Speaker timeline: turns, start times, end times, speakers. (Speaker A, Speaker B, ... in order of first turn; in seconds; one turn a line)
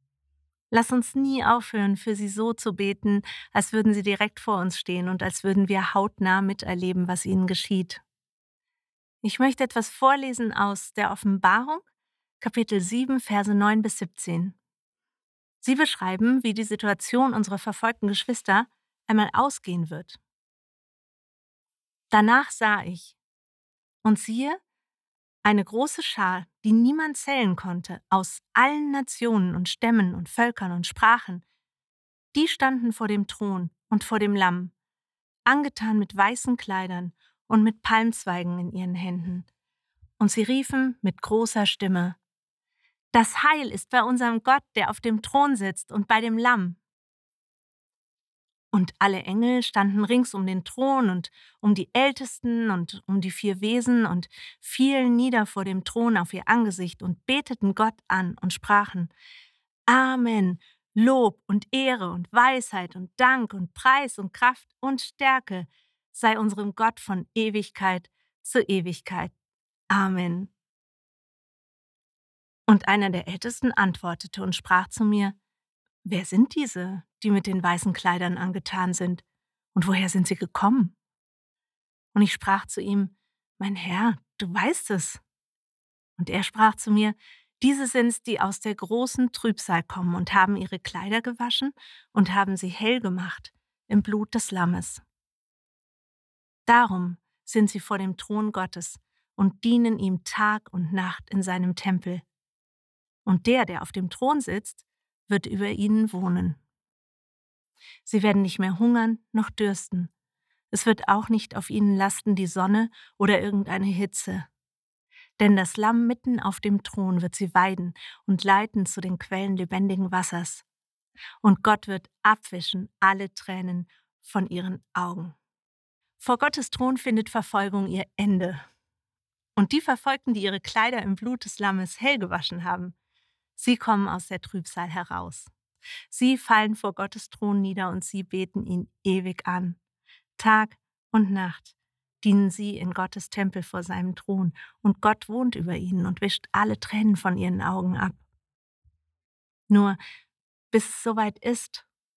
Speaker A: 0.7-8.0
Speaker A: 9.2-11.8
Speaker A: 12.4-14.6
Speaker A: 15.6-20.2
Speaker A: 22.1-23.2
Speaker A: 24.0-24.6
Speaker A: 25.4-31.4
Speaker A: 32.3-34.7
Speaker A: 35.5-39.5
Speaker A: 40.2-42.2
Speaker A: 43.1-46.8
Speaker A: 48.7-59.1
Speaker A: 59.9-69.3
Speaker A: 69.9-70.5
Speaker A: 72.7-75.4
Speaker A: 76.0-81.0
Speaker A: 82.1-85.2
Speaker A: 86.2-95.0
Speaker A: 96.7-102.2
Speaker A: 103.2-106.6
Speaker A: 108.0-110.1
Speaker A: 110.7-114.5
Speaker A: 115.4-120.7
Speaker A: 121.4-125.4
Speaker A: 126.2-128.6
Speaker A: 129.6-133.0
Speaker A: 133.6-135.5
Speaker A: 136.1-139.8
Speaker A: 140.4-148.2
Speaker A: 149.7-150.0
Speaker A: 150.7-151.9